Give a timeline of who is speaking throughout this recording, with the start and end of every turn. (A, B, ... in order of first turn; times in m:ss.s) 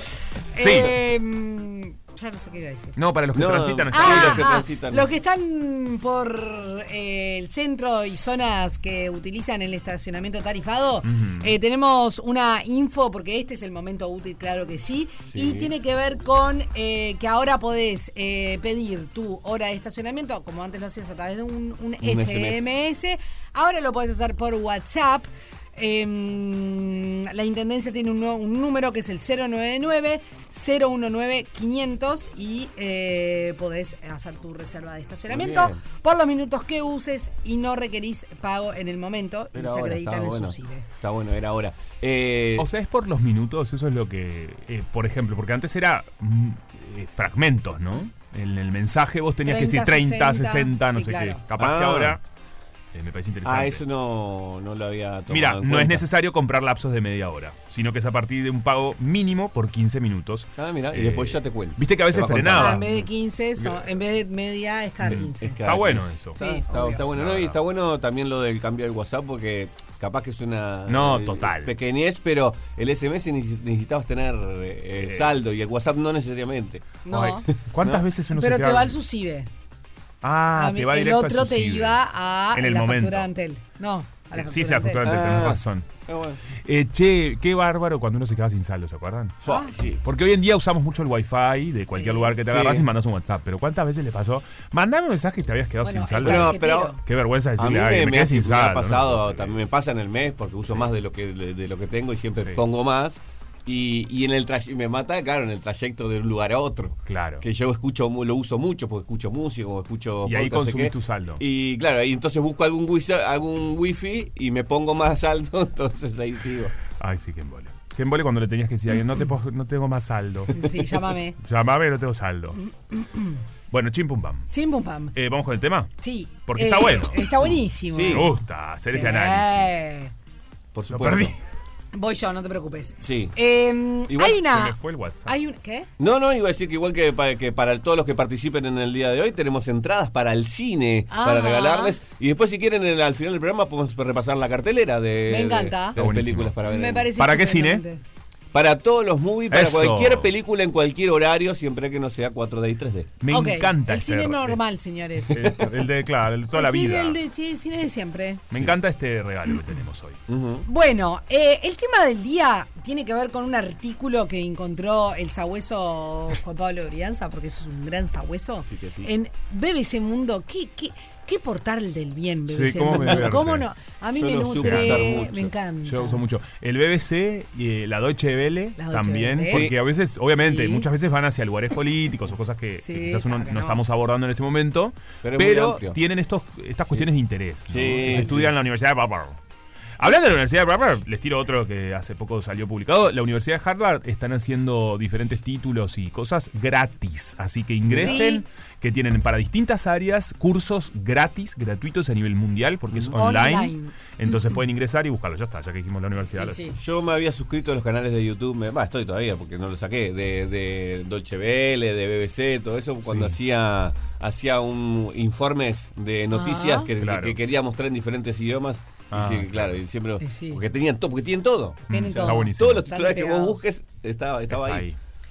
0:00.5-0:02.9 A
0:00.6-0:00.9 B
0:03.0-0:04.5 B
0:03.3-0:05.1 C
0:03.9-0:40.8 A
0:11.0-0:11.5 B
0:15.3-0:15.7 C
0:22.0-0:22.7 C
0:35.3-0:35.8 C
0:39.5-0:42.7 C
0:42.6-0:52.2 B
0:49.4-0:51.4 A
0:51.6-0:52.2 C
0:52.9-0:53.8 B
0:53.4-0:56.0 C
0:55.3-1:03.0 B
1:00.6-1:02.8 C
1:02.5-1:05.6 A
1:05.0-1:07.6 B
1:05.2-1:16.9 C
1:06.3-1:07.0 A
1:10.9-1:11.7 B
1:15.0-1:15.3 B
1:17.0-1:17.4 A
1:17.1-1:19.0 B
1:17.8-1:18.0 C
1:18.3-1:19.5 A
1:20.2-1:22.0 B
1:20.6-1:25.2 A
1:22.5-1:23.3 B
1:24.3-1:25.8 B
1:25.0-1:26.4 C
1:26.6-1:29.4 B
1:29.4-1:30.0 C
1:29.4-1:29.7 A
1:30.0-1:39.6 B
1:31.9-1:32.4 A
1:32.4-1:32.8 C
1:35.8-1:37.0 A
1:36.2-1:37.0 C
1:37.6-1:56.7 C
1:47.0-1:47.4 B
1:50.2-1:51.4 B
1:57.0-2:00.8 B
2:00.5-2:01.4 A
2:01.4-2:02.6 B
2:02.9-2:03.4 A
2:03.7-2:04.5 B
2:04.5-2:05.1 A
2:05.1-2:05.9 B
2:06.0-2:08.3 A
2:06.4-2:09.8 B
2:07.9-2:08.3 C
2:08.9-2:10.1 A
2:10.7-2:11.3 C
2:10.9-2:11.4 B
2:11.9-2:15.9 A
2:13.0-2:13.3 C
2:14.1-2:14.4 C
2:14.3-2:15.3 B
2:16.0-2:27.1 C
2:21.1-2:22.0 A
2:25.3-2:26.0 A
2:26.0-2:27.8 B
2:26.6-2:28.0 A
2:28.5-2:33.1 C
2:29.5-2:30.3 B
2:33.2-2:34.6 B
2:33.3-2:35.4 A
2:35.3-2:37.2 B
2:35.3-2:35.7 C
2:36.5-2:38.4 A
2:38.5-2:40.2 B
2:40.3-2:40.6 C
2:40.7-2:56.2 A
2:48.7-2:49.1 C
2:52.5-2:53.6 B
2:53.0-2:53.3 C
2:54.1-2:55.5 C
2:54.6-2:55.0 B
2:55.8-3:09.4 B
2:58.8-2:59.6 A
2:59.5-2:59.8 C
3:00.3-3:00.9 A
3:02.8-3:03.8 A
3:05.2-3:06.0 C
3:07.7-3:08.5 C
3:10.0-3:26.7 B
3:17.9-3:18.2 C
3:18.0-3:18.4 A
3:22.9-3:23.2 C
3:23.2-3:24.4 A
3:26.4-3:26.8 A
3:26.8-3:44.8 C
3:33.0-3:33.3 B
3:36.3-3:36.9 A
3:37.0-3:37.4 B
3:39.1-3:39.8 B
3:40.2-3:40.6 A
3:41.9-3:42.9 B
3:41.9-3:43.6 A
3:44.5-3:45.0 B